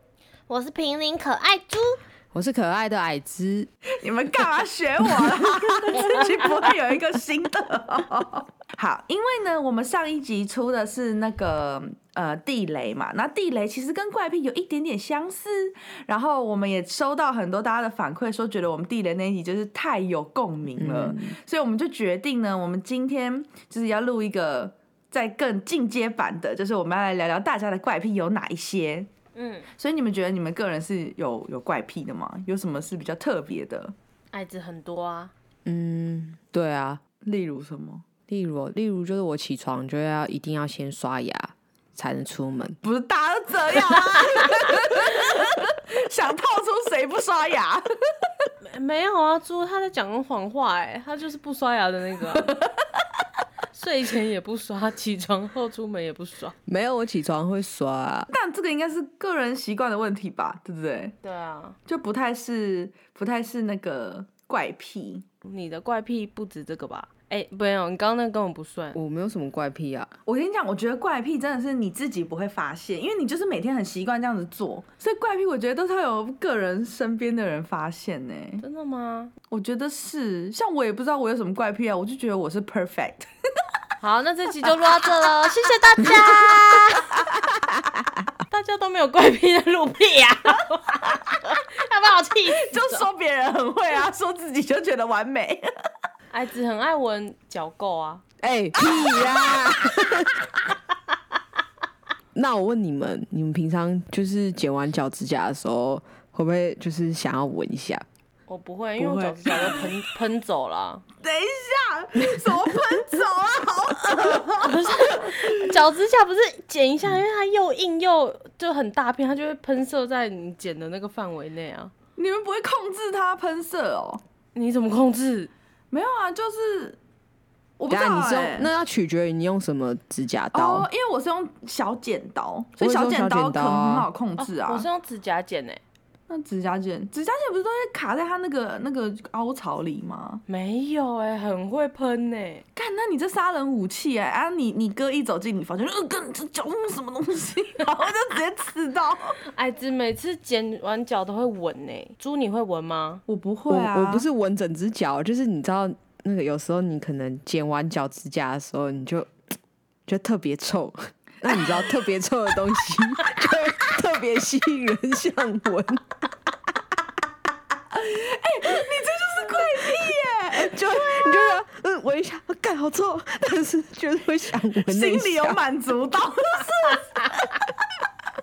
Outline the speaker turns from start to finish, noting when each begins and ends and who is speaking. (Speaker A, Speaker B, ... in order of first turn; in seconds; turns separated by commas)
Speaker A: 0.5-2.0, Speaker B: 2.3-3.7, Speaker C: 4.0-29.1, Speaker B: 20.8-21.4, Speaker A: 29.3-29.7, Speaker C: 29.7-33.9, Speaker A: 34.3-35.3, Speaker B: 35.6-37.0, Speaker C: 37.2-38.0, Speaker B: 38.3-42.8, Speaker C: 42.8-48.2, Speaker A: 48.6-52.5, Speaker C: 52.4-52.6, Speaker A: 53.7-56.5, Speaker B: 56.6-58.3, Speaker C: 58.3-61.1, Speaker A: 61.2-61.8, Speaker C: 61.9-65.2, Speaker A: 65.4-69.0, Speaker B: 68.9-70.1, Speaker C: 70.2-78.6, Speaker A: 78.6-79.3, Speaker C: 79.5-83.3, Speaker A: 84.0-87.2, Speaker A: 88.5-93.0, Speaker C: 92.5-95.7, Speaker A: 96.3-98.2, Speaker B: 98.4-100.5, Speaker C: 98.8-99.7, Speaker B: 102.3-108.0, Speaker A: 108.5-111.0, Speaker C: 109.0-109.9, Speaker C: 111.2-115.7, Speaker B: 112.3-112.5, Speaker A: 114.5-121.9, Speaker C: 122.2-124.2, Speaker A: 124.5-125.5, Speaker C: 125.9-127.0, Speaker C: 127.8-128.7, Speaker B: 127.9-130.9, Speaker C: 130.5-134.9, Speaker B: 132.8-134.1, Speaker A: 134.4-135.8, Speaker C: 136.3-140.4, Speaker A: 140.5-142.6, Speaker C: 142.8-149.4, Speaker A: 149.5-153.2, Speaker C: 153.3-154.2, Speaker B: 153.7-159.3, Speaker B: 160.1-166.1, Speaker C: 167.9-171.4, Speaker B: 170.5-175.6, Speaker C: 174.9-177.6